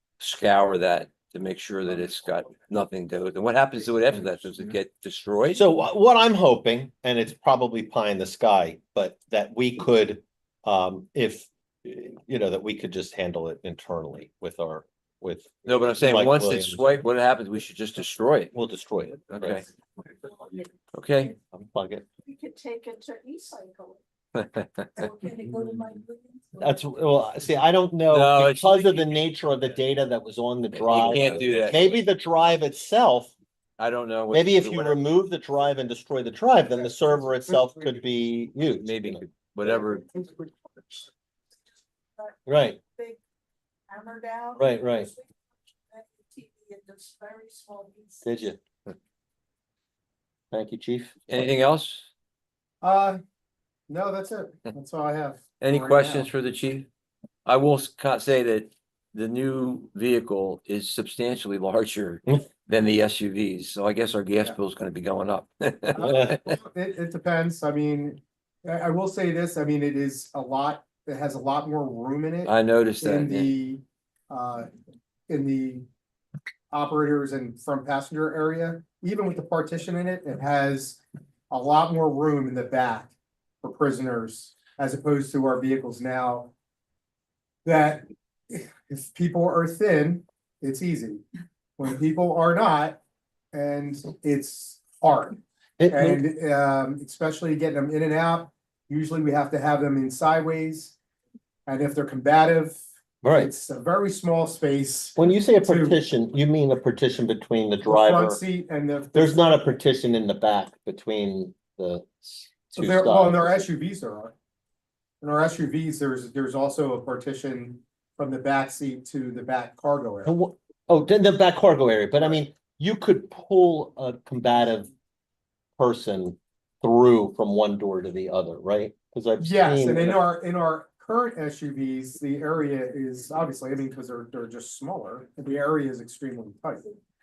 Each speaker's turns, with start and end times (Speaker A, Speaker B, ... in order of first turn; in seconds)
Speaker A: 0.2-5.6, 15.6-18.5, 19.3-19.6, 20.9-21.4, 24.3-25.1, 28.1-29.1, 30.7-32.0, 33.8-35.0, 38.8-40.2, 51.3-52.1, 55.6-56.9, 57.5-66.5, 72.5-73.5
Speaker B: 5.5-16.9, 18.5-19.6, 21.5-22.0, 26.6-33.3, 34.3-39.2, 42.5-42.8, 44.6-45.1, 48.2-48.6, 50.5-51.4, 95.8-96.2, 103.2-103.5, 105.2-108.4, 109.1-113.7, 120.2-124.9, 125.8-130.2
Speaker C: 20.3-20.6, 22.2-24.0, 25.0-26.8, 40.2-40.5, 41.7-42.4, 43.9-48.5
Speaker D: 52.8-53.2, 53.9-56.3, 65.9-74.7, 75.3-75.8, 76.7-86.5, 87.6-91.2, 91.8-93.0, 93.5-101.0, 101.7-106.0, 107.8-109.5, 112.8-114.3, 115.2-120.3, 129.4-136.9